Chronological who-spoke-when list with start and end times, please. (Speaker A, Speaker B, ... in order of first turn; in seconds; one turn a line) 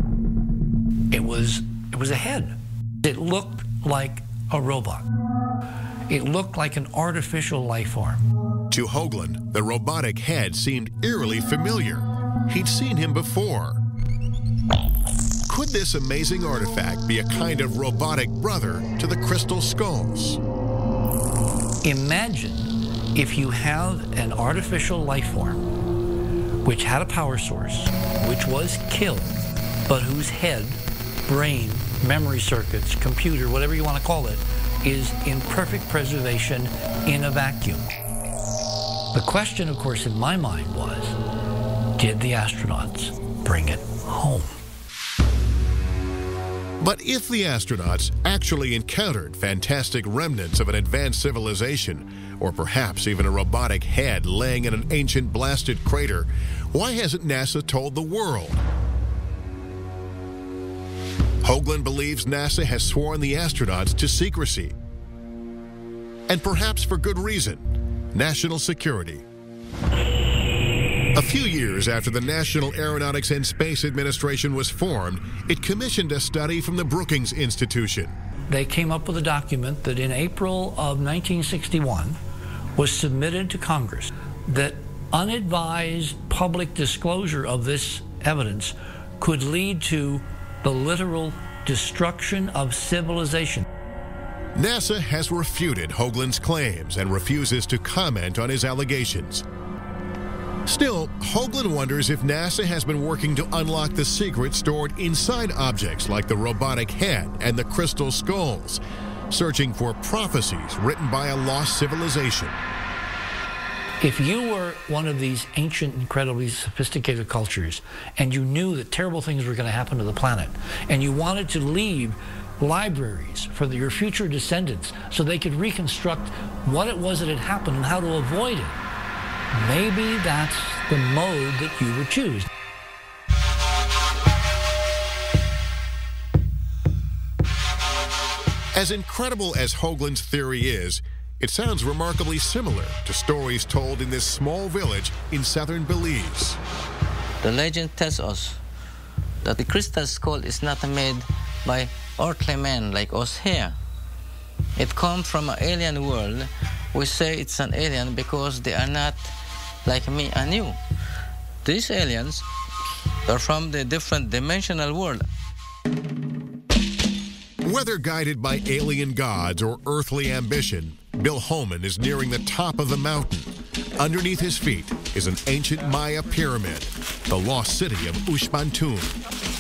Speaker A: 1.1-5.1
Speaker A: 6.1-8.2
Speaker B: 8.7-13.8
Speaker B: 15.4-20.4
Speaker A: 21.8-25.7
Speaker A: 26.6-37.9
Speaker A: 39.1-41.2
Speaker A: 42.0-44.5
Speaker B: 46.8-58.6
Speaker B: 61.4-64.8
Speaker B: 66.3-69.2
Speaker B: 71.1-78.2
Speaker A: 78.5-82.2
Speaker A: 82.8-93.7
Speaker B: 94.5-99.5
Speaker B: 100.7-112.6
Speaker A: 114.0-128.8
Speaker A: 129.5-132.5
Speaker B: 138.7-146.6
Speaker C: 147.4-148.6
Speaker C: 149.4-153.8
Speaker C: 154.8-159.3
Speaker C: 159.8-160.8
Speaker C: 161.6-162.4
Speaker C: 163.3-165.2
Speaker B: 167.6-179.2